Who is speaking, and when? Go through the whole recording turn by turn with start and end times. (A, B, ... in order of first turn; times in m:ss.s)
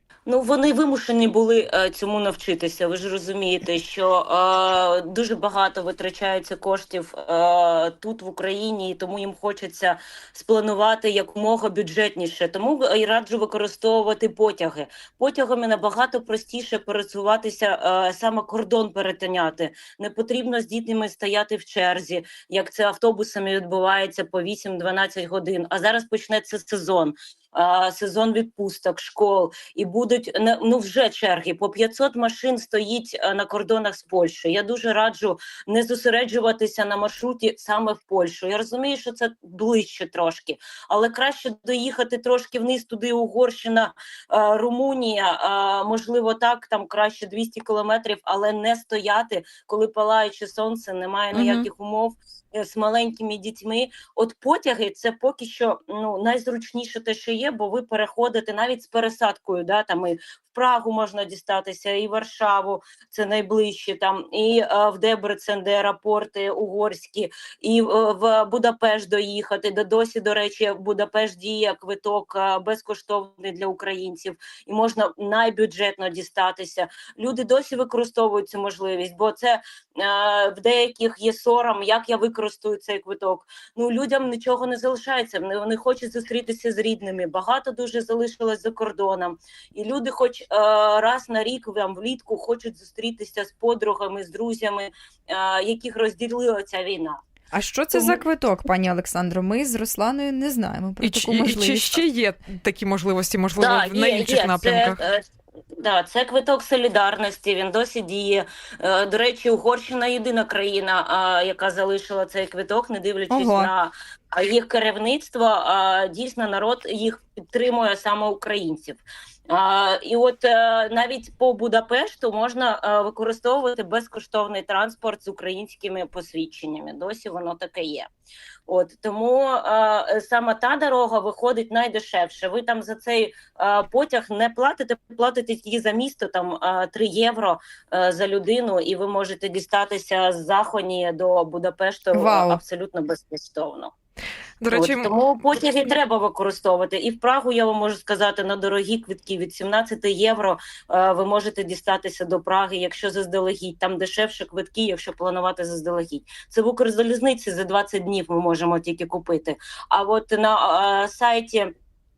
0:00.3-1:37.2 A
0:51.3-0:51.7 B
1:37.5-1:42.0 B
1:37.9-1:38.2 A
1:41.0-1:45.0 C
1:43.6-1:45.2 A
1:45.8-2:08.1 A
1:53.3-1:53.7 B
2:08.7-2:23.9 A
2:22.1-2:22.6 B
2:24.6-2:25.1 C
2:24.7-2:41.7 A